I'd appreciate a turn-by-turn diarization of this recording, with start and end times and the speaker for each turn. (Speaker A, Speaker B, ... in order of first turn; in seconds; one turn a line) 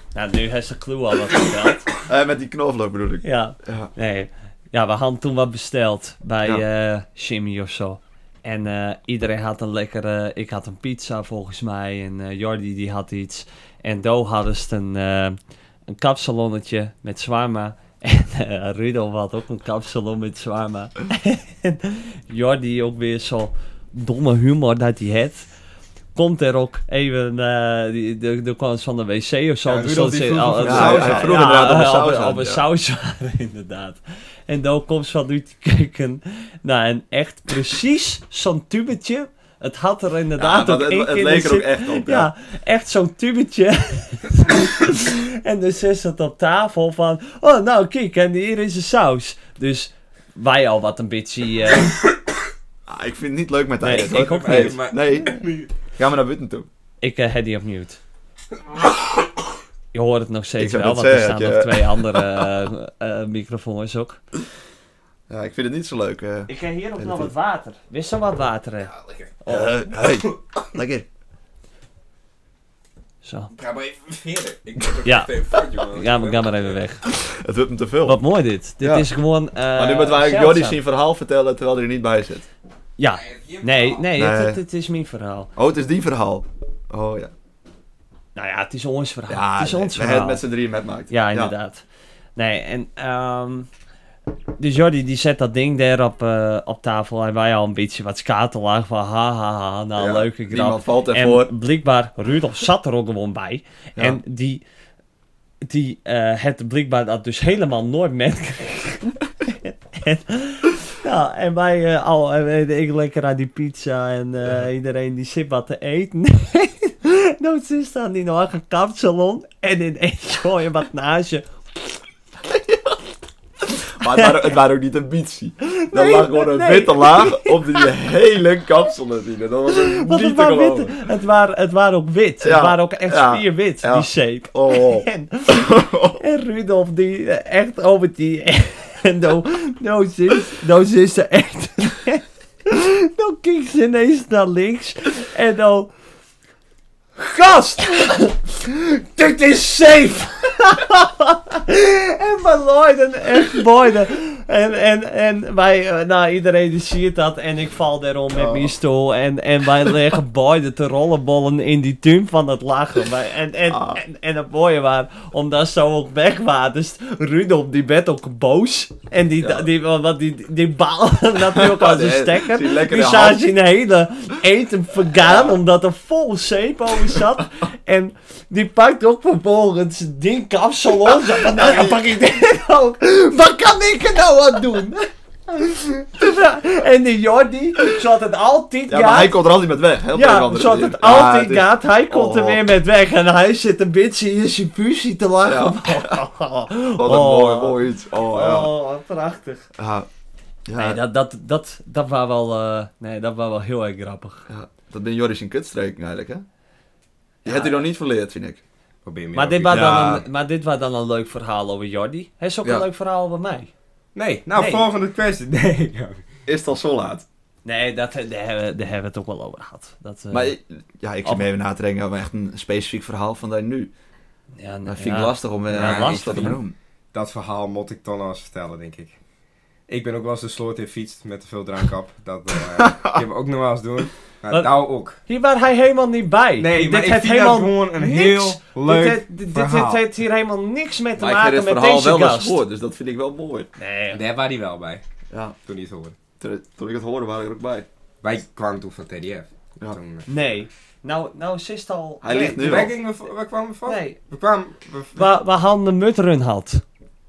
Speaker A: 0.1-1.9
Speaker B: 2.0-3.9
Speaker A: 3.2-25.5
Speaker A: 26.1-52.0
Speaker C: 29.7-31.4
Speaker B: 30.6-32.6
Speaker B: 40.4-42.3
Speaker B: 52.9-55.4
Speaker A: 53.8-54.8
Speaker C: 53.9-55.7
Speaker B: 56.0-56.7
Speaker A: 57.0-58.0
Speaker A: 59.9-64.2
Speaker B: 60.6-62.5
Speaker B: 65.3-67.3
Speaker A: 66.5-69.8
Speaker C: 69.0-69.3
Speaker B: 69.5-71.1
Speaker A: 73.2-73.5
Speaker C: 73.5-76.7
Speaker A: 75.0-77.0
Speaker B: 77.1-78.2
Speaker A: 78.0-80.8
Speaker B: 78.8-79.1
Speaker B: 79.8-82.5
Speaker A: 83.0-85.5
Speaker C: 83.2-84.0
Speaker B: 84.2-84.6
Speaker B: 85.6-87.3
Speaker A: 88.3-90.4
Speaker B: 89.3-91.5
Speaker A: 91.1-91.8
Speaker A: 92.4-93.7
Speaker A: 94.6-104.6
Speaker B: 100.0-101.5
Speaker A: 105.6-121.5
Speaker B: 122.4-123.0
Speaker B: 123.7-131.0
Speaker A: 124.0-124.5
Speaker A: 125.6-127.9
Speaker A: 129.7-145.9
Speaker B: 132.4-136.2
Speaker A: 147.2-189.4
Speaker B: 158.3-158.7
Speaker B: 163.7-164.0
Speaker B: 169.4-169.7
Speaker B: 171.5-173.4
Speaker B: 175.2-175.5
Speaker B: 181.1-182.1
Speaker B: 188.9-192.6
Speaker A: 190.1-199.7
Speaker B: 195.5-196.2
Speaker B: 196.9-198.7
Speaker B: 199.8-200.1
Speaker B: 200.7-201.0
Speaker A: 200.8-204.5
Speaker B: 204.5-206.4
Speaker A: 207.4-207.8
Speaker B: 207.4-208.6
Speaker C: 209.1-210.1
Speaker A: 209.3-213.7
Speaker B: 209.7-210.2
Speaker C: 214.2-216.2
Speaker A: 214.5-214.9
Speaker B: 216.5-217.2
Speaker A: 217.7-220.6
Speaker B: 220.3-223.9
Speaker A: 224.6-226.6
Speaker B: 224.9-226.8
Speaker C: 225.7-226.6
Speaker C: 227.1-229.2
Speaker C: 229.9-235.2
Speaker B: 232.8-233.2
Speaker A: 234.5-234.8
Speaker A: 235.3-242.6
Speaker C: 236.6-240.0
Speaker B: 241.2-243.7
Speaker A: 243.8-244.2
Speaker C: 244.1-245.0
Speaker C: 245.7-246.2
Speaker B: 246.4-247.9
Speaker C: 248.2-250.3
Speaker A: 250.3-252.9
Speaker B: 252.2-252.9
Speaker C: 252.6-255.2
Speaker A: 253.9-254.2
Speaker A: 255.2-256.8